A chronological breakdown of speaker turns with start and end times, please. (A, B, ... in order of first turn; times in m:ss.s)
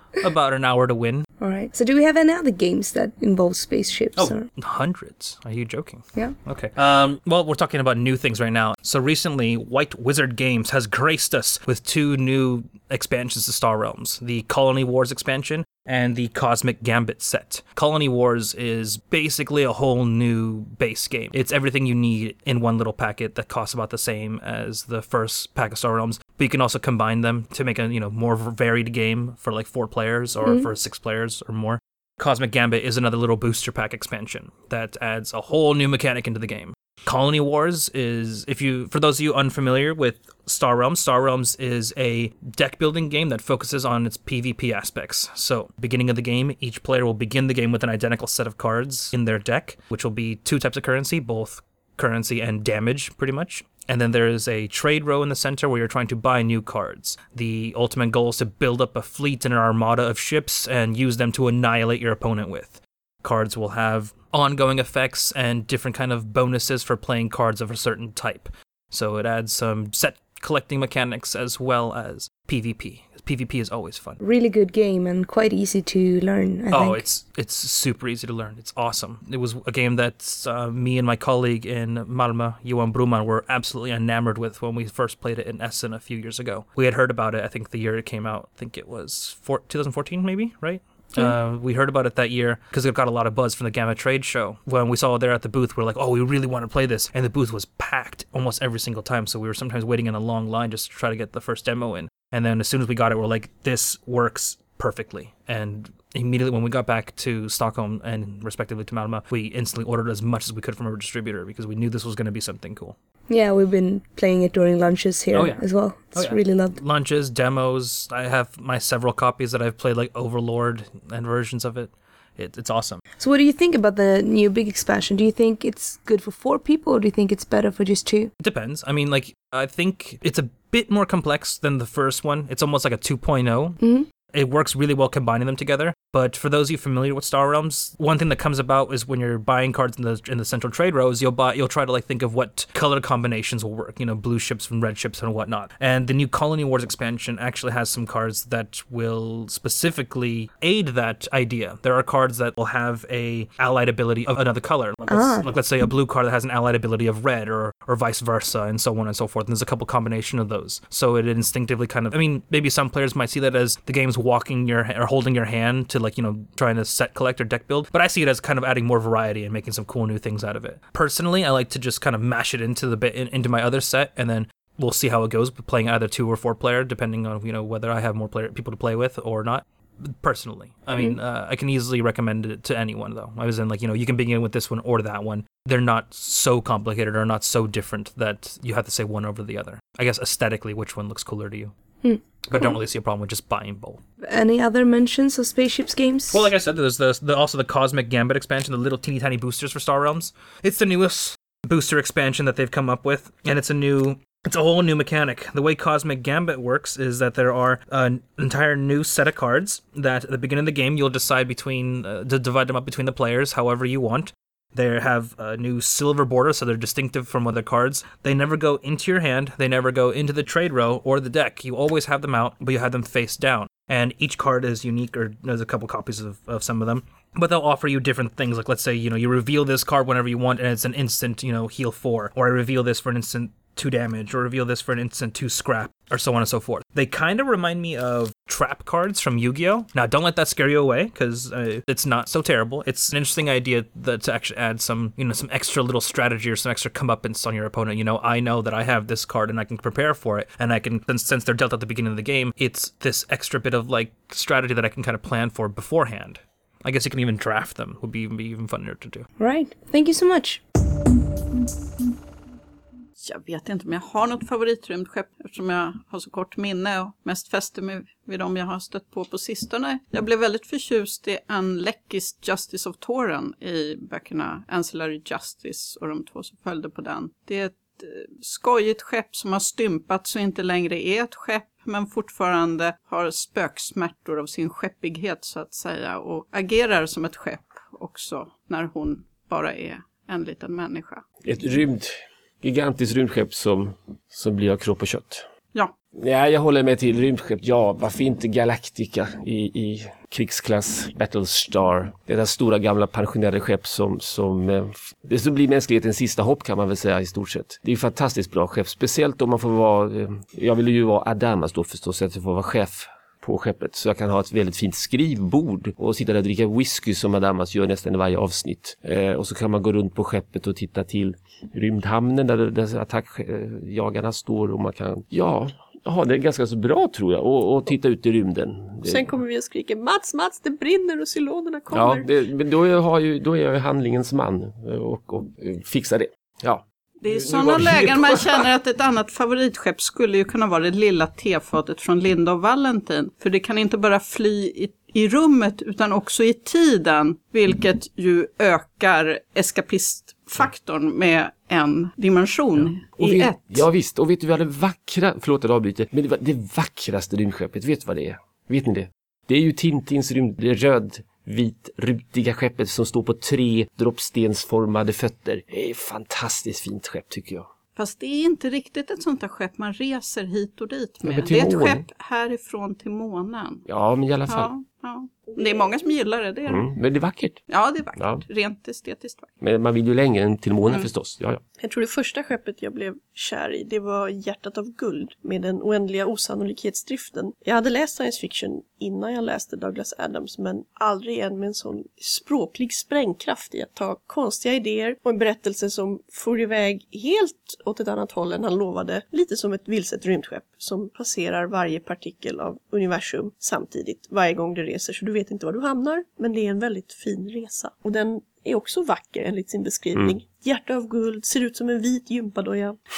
0:00.2-0:01.3 A
0:01.4-0:04.5 B
0:04.2-1:14.2 A
1:14.2-1:17.0 B
1:16.7-1:53.0 A
1:53.3-1:56.8 B
1:55.3-2:03.0 A
2:03.2-2:08.3 B
2:08.4-2:13.8 A
2:13.8-2:14.1 B
2:14.3-3:11.7 A
2:35.1-2:35.5 B
3:12.0-3:12.8 B
3:12.5-3:14.0 A
3:14.2-3:16.4 B
3:16.3-4:19.3 A
4:19.4-4:20.6 B
4:23.2-4:51.2 C
4:51.4-4:55.5 D
4:56.2-5:29.3 D
5:29.0-5:32.3 E
5:31.9-5:38.7 D
5:37.2-5:53.8 C
5:52.8-6:07.7 D
6:08.0-6:13.8 C
6:11.2-6:12.1 D
6:13.9-6:14.7 D
6:14.5-6:16.9 C
6:16.7-6:17.6 D
6:17.7-6:19.5 C
6:18.2-6:18.4 D
6:19.6-6:21.6 D
6:21.8-6:53.0 E